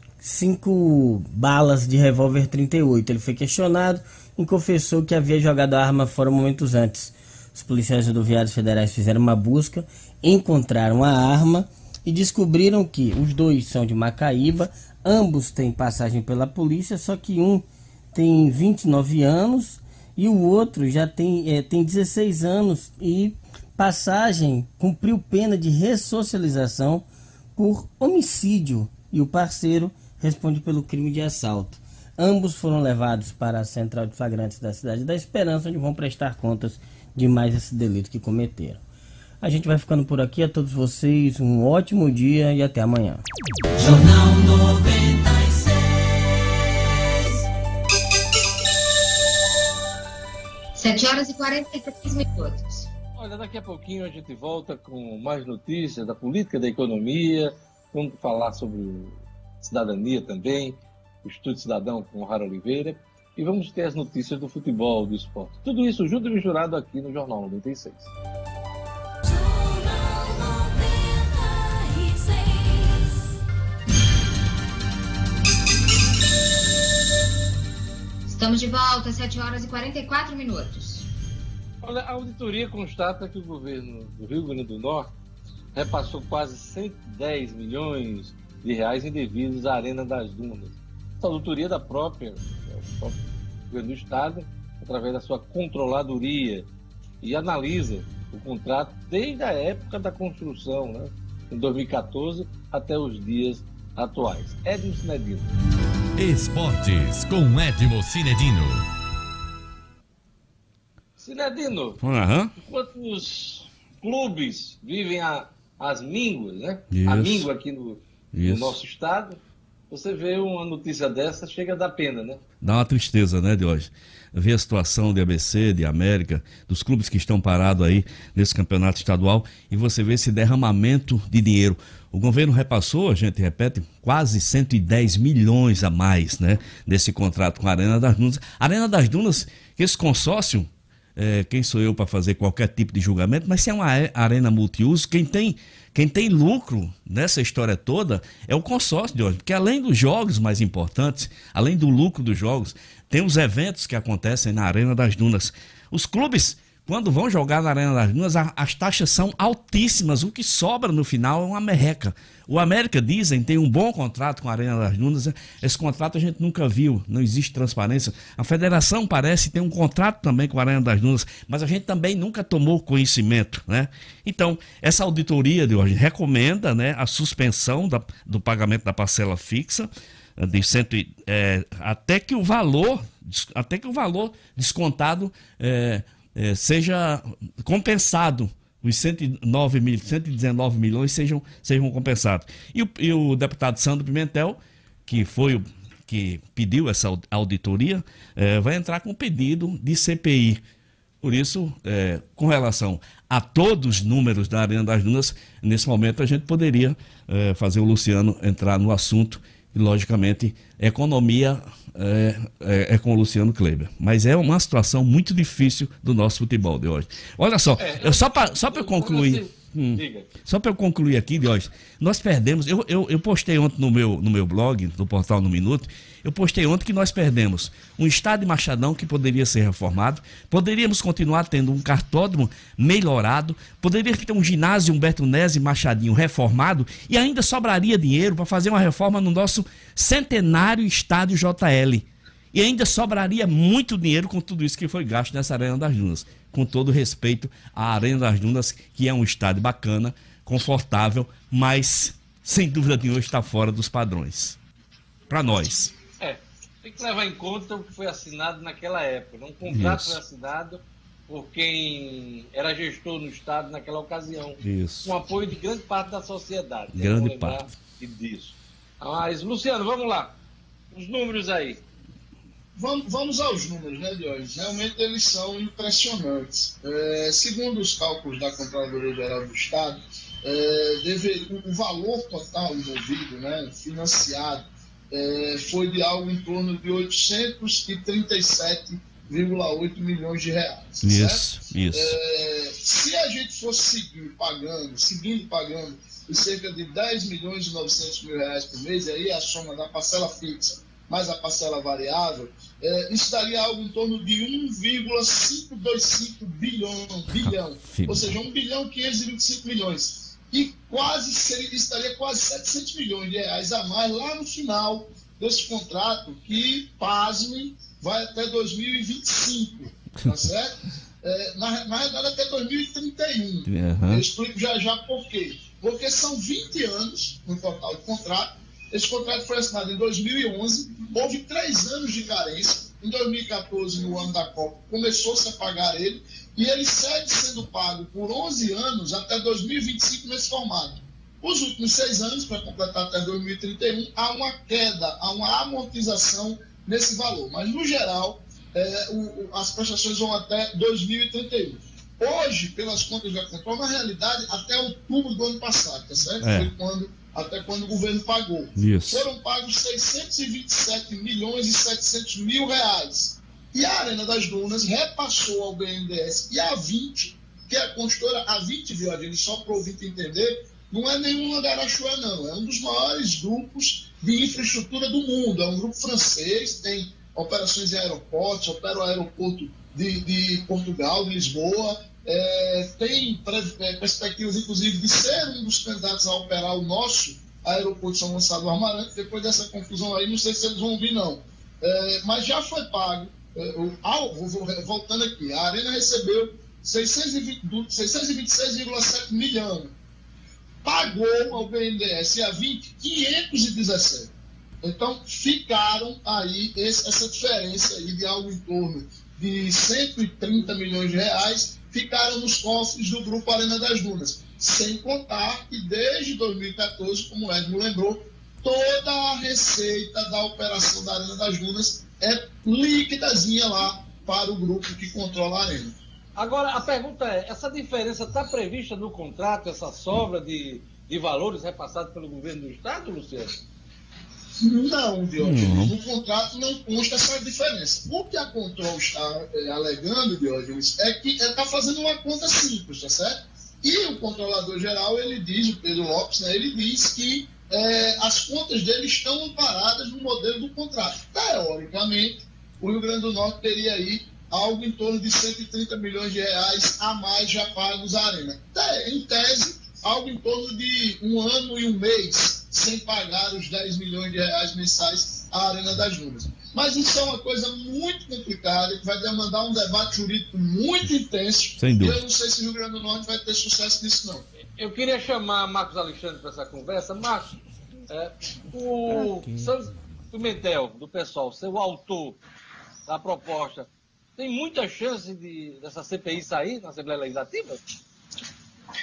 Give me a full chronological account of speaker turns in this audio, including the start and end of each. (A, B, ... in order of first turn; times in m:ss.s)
0:00.2-0:38.8 A
0:39.4-0:43.2 A
0:43.8-0:46.3 B
0:50.8-0:52.9 C
0:53.2-1:08.1 D
1:18.3-1:21.1 C
1:21.8-1:25.1 D
1:25.7-1:33.2 D
1:33.7-1:36.7 D
1:37.2-1:45.5 D
1:46.2-1:48.9 B
1:51.2-1:52.0 D
1:52.0-1:52.5 E
1:52.6-1:59.4 D
1:56.9-1:57.5 E
1:58.4-1:58.8 E
1:59.9-2:02.4 D
2:02.6-3:20.6 E
3:21.2-4:14.6 E
3:37.8-3:40.3 D
4:15.3-4:15.9 E
4:16.2-4:30.4 D
4:19.7-4:20.2 E
4:24.6-4:25.1 E
4:26.9-4:27.7 E
4:30.9-4:31.8 D
4:32.8-6:39.9 F
4:51.0-4:52.2 E
5:07.4-5:08.4 E
5:23.7-5:24.2 E
5:56.4-5:56.7 E
5:58.8-5:59.3 E
6:40.8-6:44.3 F
6:44.8-7:06.0 F
7:06.4-7:13.6 D
7:14.6-7:54.5 F
7:15.4-7:16.0 E
7:51.8-7:52.2 E
7:54.8-7:57.5 D
7:58.1-8:02.4 D
8:03.1-8:07.8 D